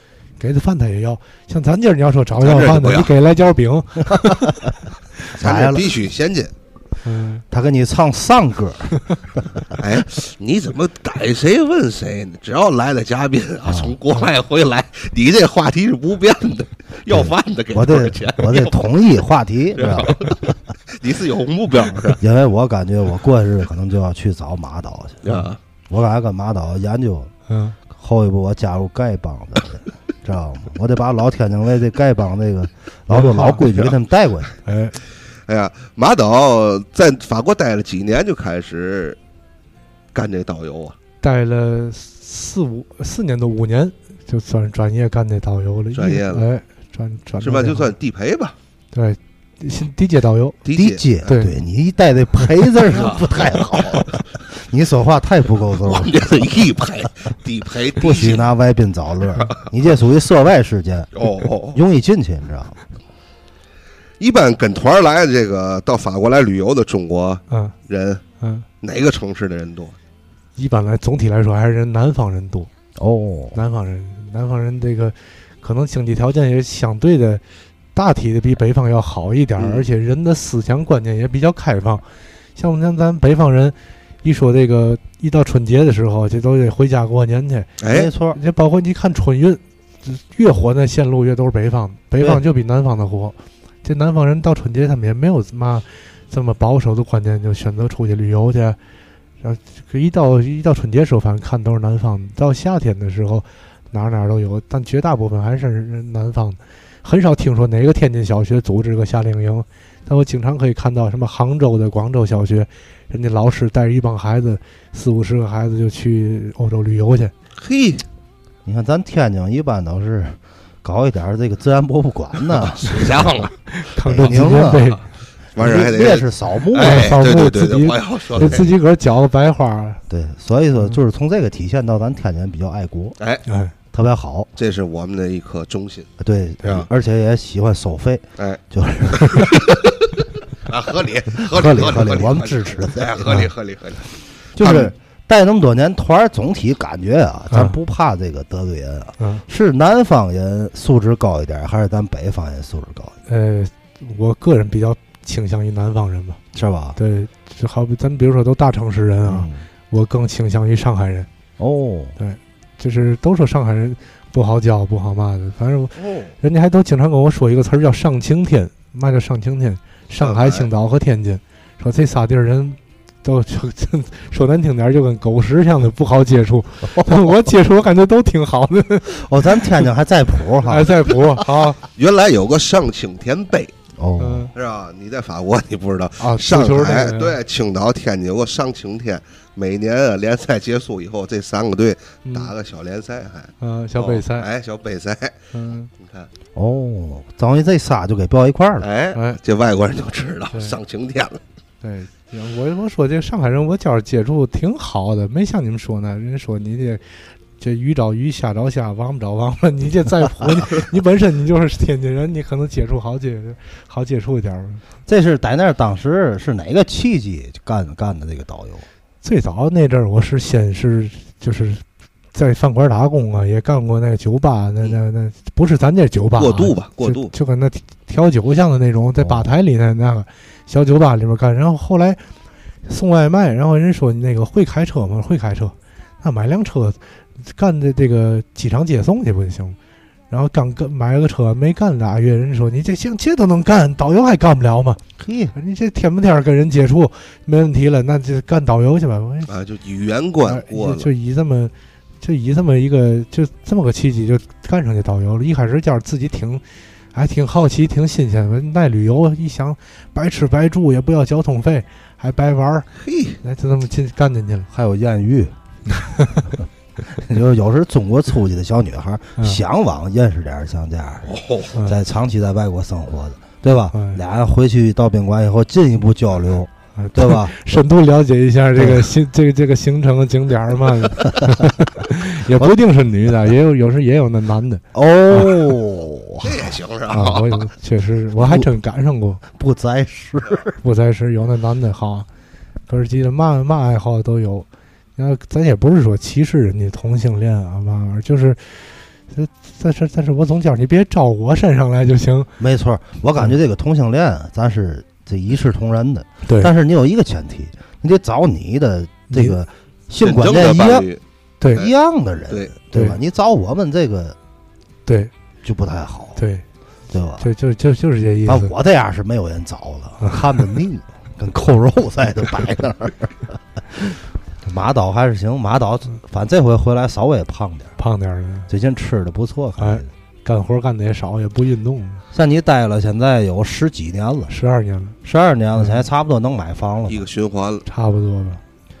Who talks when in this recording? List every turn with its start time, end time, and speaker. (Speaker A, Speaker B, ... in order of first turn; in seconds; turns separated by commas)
Speaker A: 0.4-4.6, Speaker B: 2.4-3.1, Speaker C: 4.2-4.5, Speaker B: 5.3-6.5, Speaker C: 5.4-5.9, Speaker A: 7.0-7.4, Speaker C: 7.5-9.6, Speaker B: 9.8-18.8, Speaker C: 13.6-14.0, Speaker C: 17.1-20.4, Speaker B: 19.8-22.2, Speaker C: 22.2-25.3, Speaker B: 25.2-25.6, Speaker C: 25.9-27.3, Speaker A: 27.5-27.8, Speaker C: 27.9-34.5, Speaker A: 33.1-33.6, Speaker A: 34.6-35.0, Speaker B: 35.5-39.2, Speaker B: 40.1-41.0, Speaker A: 41.2-47.9, Speaker B: 45.9-46.4, Speaker B: 47.4-48.5, Speaker A: 48.9-50.6, Speaker B: 50.6-51.3, Speaker C: 50.7-56.5, Speaker A: 51.2-51.5, Speaker B: 52.9-54.1, Speaker B: 55.8-58.5, Speaker C: 58.0-62.8, Speaker B: 61.1-61.8, Speaker B: 64.2-68.2, Speaker A: 68.4-68.7, Speaker B: 68.8-69.9, Speaker A: 70.6-72.7, Speaker C: 73.0-73.6, Speaker A: 73.5-77.4, Speaker A: 77.9-82.0, Speaker B: 79.6-79.9, Speaker A: 82.5-87.8, Speaker B: 87.8-88.1, Speaker C: 87.9-88.4, Speaker A: 88.3-98.8, Speaker A: 99.4-117.3, Speaker B: 117.6-118.0, Speaker C: 118.6-123.3, Speaker B: 122.5-123.5, Speaker A: 123.7-125.0, Speaker C: 124.0-124.9, Speaker B: 124.7-125.0, Speaker B: 125.5-128.7, Speaker C: 125.5-127.1, Speaker A: 126.8-130.0, Speaker C: 130.1-133.2, Speaker B: 133.2-133.4, Speaker A: 133.5-133.7, Speaker C: 133.9-134.5, Speaker B: 134.6-136.1, Speaker C: 136.2-139.7, Speaker B: 136.6-136.9, Speaker B: 139.1-139.9, Speaker B: 140.7-144.9, Speaker C: 141.4-143.5, Speaker C: 144.6-153.2, Speaker A: 147.5-147.8, Speaker A: 153.3-156.4, Speaker C: 156.5-157.0, Speaker A: 157.0-161.3, Speaker C: 159.2-159.6, Speaker C: 161.6-162.2, Speaker A: 162.2-179.6, Speaker B: 166.0-166.3, Speaker B: 170.2-170.7, Speaker C: 177.0-177.2, Speaker C: 179.1-181.0, Speaker A: 180.6-181.8, Speaker B: 181.9-183.7, Speaker C: 184.0-184.5, Speaker A: 184.2-184.5, Speaker B: 184.5-195.4, Speaker A: 186.2-187.4, Speaker A: 192.2-192.5, Speaker A: 193.6-194.5, Speaker A: 195.5-195.9, Speaker B: 196.0-196.3, Speaker C: 196.5-198.9, Speaker B: 198.8-201.4, Speaker A: 199.1-199.4, Speaker A: 201.8-214.8, Speaker C: 215.1-218.8, Speaker A: 219.2-232.2, Speaker B: 226.4-227.3, Speaker C: 229.2-229.5, Speaker A: 232.8-239.8, Speaker A: 240.3-245.0, Speaker C: 245.2-245.5, Speaker A: 245.5-249.5, Speaker B: 249.5-251.1, Speaker A: 250.4-256.6, Speaker A: 257.1-262.9, Speaker B: 263.0-263.4, Speaker A: 263.4-264.7, Speaker C: 264.7-265.5, Speaker A: 265.9-266.5, Speaker C: 267.1-277.5, Speaker B: 271.3-271.7, Speaker A: 273.9-274.2, Speaker A: 277.0-285.7, Speaker C: 278.8-279.1, Speaker C: 281.2-281.5, Speaker C: 284.9-286.7, Speaker B: 286.4-287.7, Speaker A: 287.1-289.4, Speaker C: 288.4-288.7, Speaker C: 289.5-290.8, Speaker A: 290.8-292.3, Speaker A: 292.9-302.5, Speaker C: 302.6-311.1, Speaker A: 306.4-306.7, Speaker A: 309.3-309.6, Speaker B: 310.2-311.2, Speaker C: 311.7-314.4, Speaker A: 312.9-313.2, Speaker A: 315.1-315.3, Speaker C: 315.6-316.4, Speaker A: 316.4-316.6, Speaker C: 317.1-317.5, Speaker A: 317.4-318.7, Speaker C: 318.4-327.9, Speaker A: 328.0-328.7, Speaker C: 328.7-330.1, Speaker A: 329.8-332.2, Speaker C: 332.3-334.5, Speaker A: 334.5-335.1, Speaker C: 335.2-337.2, Speaker B: 337.1-337.9, Speaker A: 337.9-338.6